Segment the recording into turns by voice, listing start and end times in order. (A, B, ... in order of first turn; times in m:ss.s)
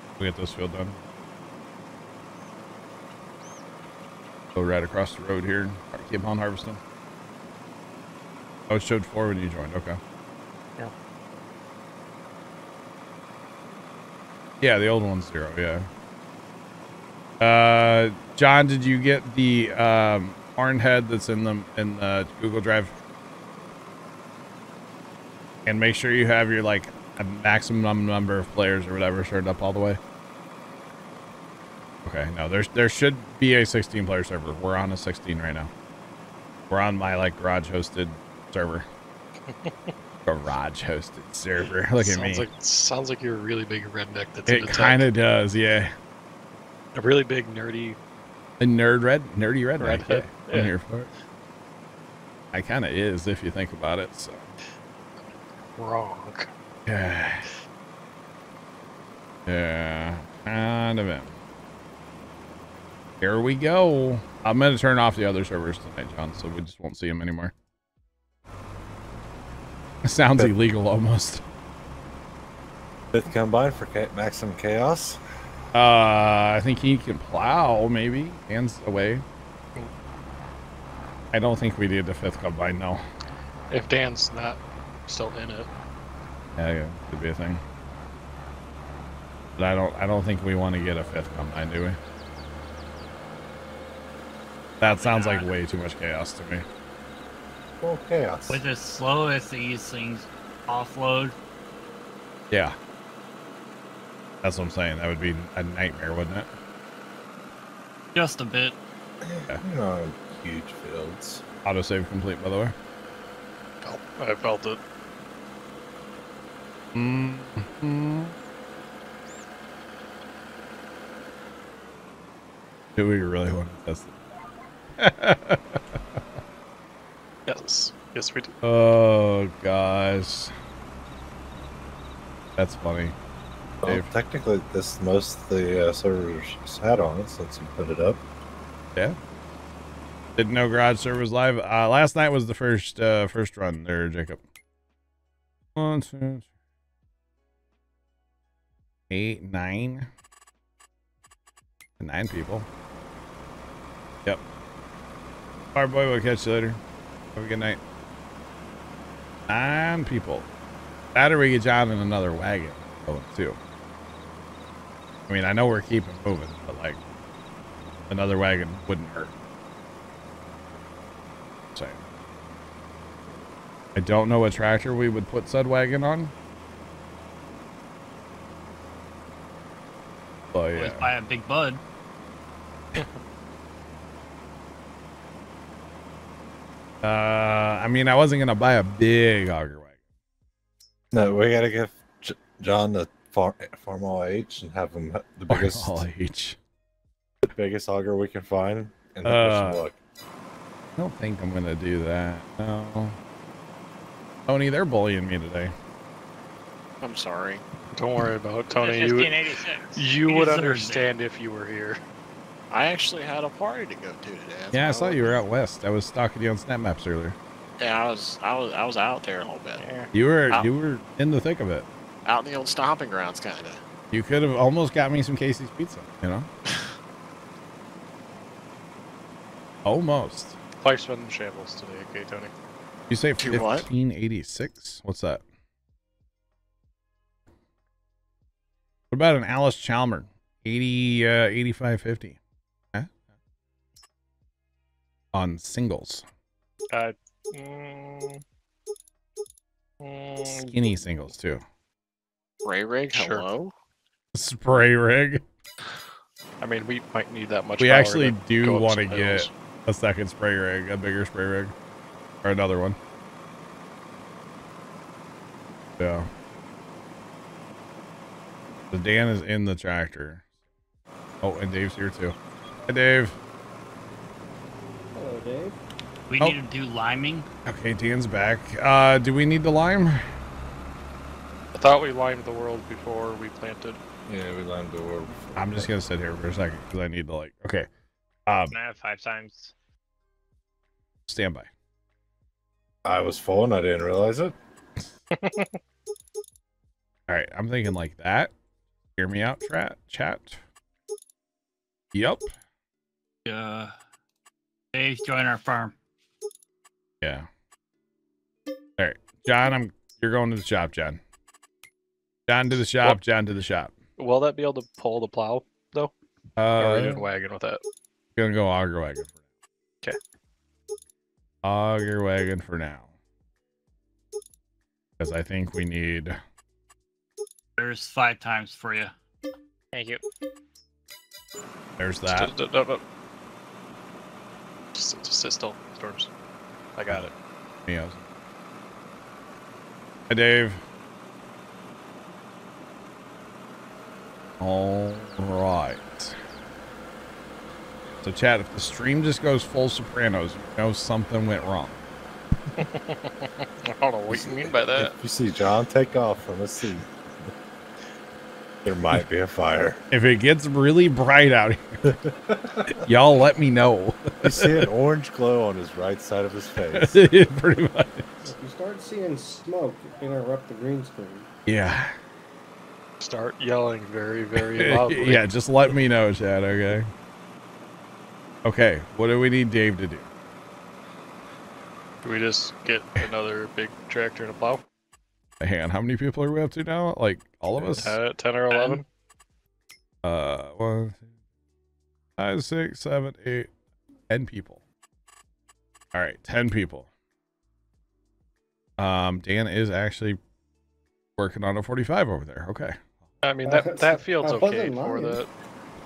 0:00.2-0:01.0 A
0:04.6-0:06.8 A
0:08.7-0:10.0 A
0:14.6-0:15.9 A
0:17.4-0:22.9 A
0:25.7-0:30.0 A
0:32.0-0:35.7 A
0:36.7-0:38.9 A
0:39.5-0:39.9 B
0:40.3-0:42.5 A
0:42.0-0:45.1 B
0:44.5-0:46.0 A
0:46.9-0:48.0 B
0:48.6-0:51.1 A
0:49.8-0:50.7 B
0:52.5-0:54.4 A
0:55.8-0:56.5 B
0:56.9-0:57.5 A
0:59.5-1:01.3 A
1:03.2-1:07.5 A
1:10.0-1:11.4 A
1:13.1-1:15.2 C
1:15.7-1:19.2 A
1:21.3-1:23.0 A
1:23.7-1:25.7 B
1:26.6-1:27.6 A
1:29.6-1:32.0 A
1:34.8-1:36.7 A
1:34.8-1:35.4 D
1:37.8-1:38.6 C
1:38.5-1:41.4 D
1:42.5-1:42.8 A
1:44.4-1:46.5 A
1:48.2-1:48.8 D
1:49.2-1:51.4 C
1:51.6-1:52.8 A
1:53.8-1:54.8 B
1:56.9-1:58.4 A
2:03.0-2:04.1 A
2:05.0-2:06.0 A
2:07.5-2:08.5 B
2:08.6-2:10.5 A
2:12.6-2:13.2 A
2:13.8-2:18.2 C
2:20.4-2:24.4 A
2:25.8-2:26.5 A
2:29.1-2:30.1 A
2:32.0-2:32.7 A
2:35.8-2:36.8 A
2:37.4-2:37.8 A
2:39.5-2:40.5 A
2:41.2-2:43.6 A
2:45.3-2:47.0 A
2:48.1-2:49.3 A
2:51.8-2:52.0 A
2:54.0-2:56.3 A
3:00.5-3:01.1 A
3:00.8-3:01.8 D
3:07.0-3:09.9 A
3:11.1-3:16.0 C
3:15.5-3:16.6 A
3:17.4-3:20.0 C
3:19.2-3:19.8 A
3:21.0-3:23.2 A
3:24.5-3:25.8 A
3:27.0-3:27.6 E
3:28.0-3:29.4 B
3:28.8-3:30.0 F
3:29.9-3:32.0 B
3:30.2-3:31.1 D
3:32.7-3:35.4 E
3:34.7-3:37.4 A
3:37.8-3:39.8 E
3:39.8-3:40.1 B
3:40.1-3:41.9 A
3:42.2-3:43.8 E
3:44.1-3:46.5 A
3:49.8-3:50.6 A
3:50.8-3:52.5 B
3:53.1-3:55.4 A
3:53.4-3:53.9 E
3:59.1-4:02.4 A
4:05.3-4:06.2 A
4:06.9-4:08.4 B
4:10.0-4:10.8 B
4:10.5-4:11.6 A
4:12.6-4:13.7 E
4:13.1-4:13.5 B
4:14.3-4:15.4 A
4:16.6-4:19.5 B
4:17.8-4:21.7 A
4:22.4-4:23.0 A
4:26.0-4:26.3 A
4:28.9-4:30.4 A
4:31.4-4:32.4 A
4:32.9-4:33.4 A
4:35.2-4:35.8 G
4:36.3-4:37.5 D
4:37.7-4:40.2 A
4:41.8-4:44.0 B
4:44.3-4:46.1 C
4:45.6-4:47.9 A
4:48.5-4:48.8 A
4:48.7-4:49.7 F
4:51.3-4:51.7 A
4:53.0-4:54.6 C
4:55.3-4:55.8 B
4:57.3-4:58.5 A
4:59.2-5:00.6 A
5:02.1-5:02.5 A
5:03.5-5:03.9 D
5:04.9-5:05.9 D
5:07.2-5:07.5 A
5:09.0-5:11.2 A
5:12.5-5:13.9 A
5:14.2-5:16.1 B
5:16.6-5:17.2 A
5:16.8-5:17.8 B
5:18.4-5:19.3 A
5:21.6-5:23.1 A
5:25.2-5:26.4 A
5:27.8-5:29.1 D
5:29.9-5:30.2 F
5:32.0-5:32.5 A
5:32.2-5:33.0 B
5:34.9-5:36.3 B
5:37.0-5:37.3 B
5:37.9-5:38.2 A
5:40.3-5:40.8 A
5:44.6-5:46.4 A
5:48.2-5:52.0 A
5:52.8-5:55.1 B
5:54.3-5:57.5 C
5:58.8-6:00.0 C
6:00.1-6:02.0 A
6:02.1-6:03.0 C
6:02.9-6:04.9 A
6:04.4-6:07.2 C
6:07.0-6:08.5 A
6:08.4-6:11.5 G
6:11.7-6:12.2 A
6:13.2-6:15.5 B
6:14.6-6:17.1 A
6:18.6-6:20.3 A
6:22.2-6:24.8 B
6:25.6-6:28.2 A
6:27.8-6:29.0 B
6:30.2-6:31.2 A
6:32.4-6:33.7 A
6:34.3-6:34.8 A
6:36.1-6:37.1 A
6:39.0-6:40.4 A
6:41.4-6:43.0 A
6:43.4-6:45.5 B
6:43.6-6:45.4 G